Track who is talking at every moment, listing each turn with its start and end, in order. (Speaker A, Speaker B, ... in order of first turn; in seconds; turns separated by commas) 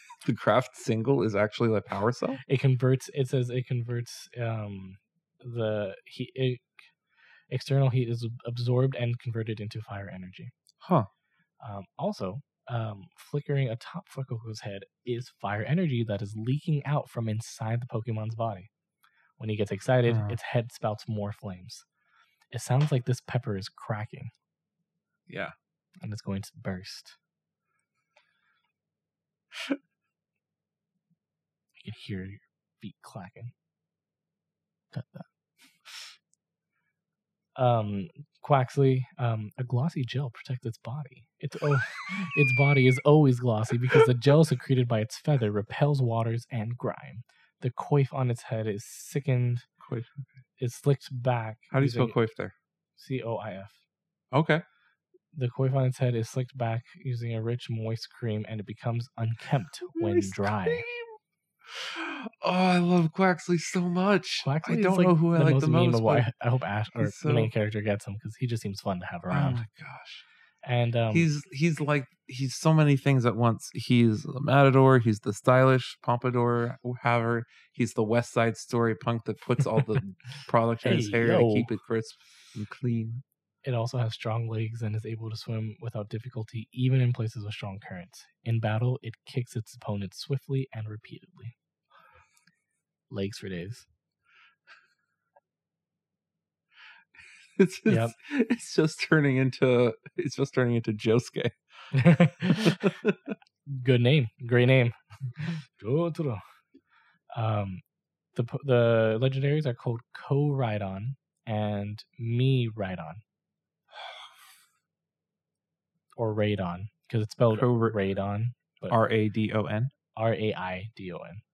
Speaker A: 0.2-2.4, Speaker B: 2.4-6.7, Speaker B: 7.5-10.5, Speaker A: 10.8-11.1, Speaker B: 11.6-18.7, Speaker B: 19.4-21.9, Speaker A: 20.1-20.4, Speaker B: 22.5-24.3, Speaker A: 25.3-25.5, Speaker B: 26.0-27.2, Speaker B: 31.8-33.5, Speaker B: 34.9-35.3, Speaker B: 35.8-36.1, Speaker B: 37.5-49.7, Speaker A: 49.8-50.4, Speaker B: 50.6-52.1, Speaker A: 51.7-52.5, Speaker B: 53.0-53.8, Speaker A: 54.3-54.6, Speaker B: 55.3-60.8, Speaker A: 59.9-66.3, Speaker B: 64.4-69.6, Speaker A: 67.0-67.5, Speaker A: 69.3-70.2, Speaker B: 70.6-71.3, Speaker A: 71.1-83.2, Speaker B: 80.8-81.7, Speaker B: 83.6-91.5, Speaker B: 93.1-93.9, Speaker A: 97.4-101.5, Speaker B: 97.9-98.1, Speaker B: 101.9-103.0, Speaker A: 102.5-103.3, Speaker B: 103.7-106.4, Speaker B: 107.3-107.8, Speaker B: 108.3-113.2, Speaker A: 113.9-114.3, Speaker B: 116.2-119.0, Speaker A: 117.5-118.0, Speaker A: 118.9-119.9, Speaker B: 120.1-121.4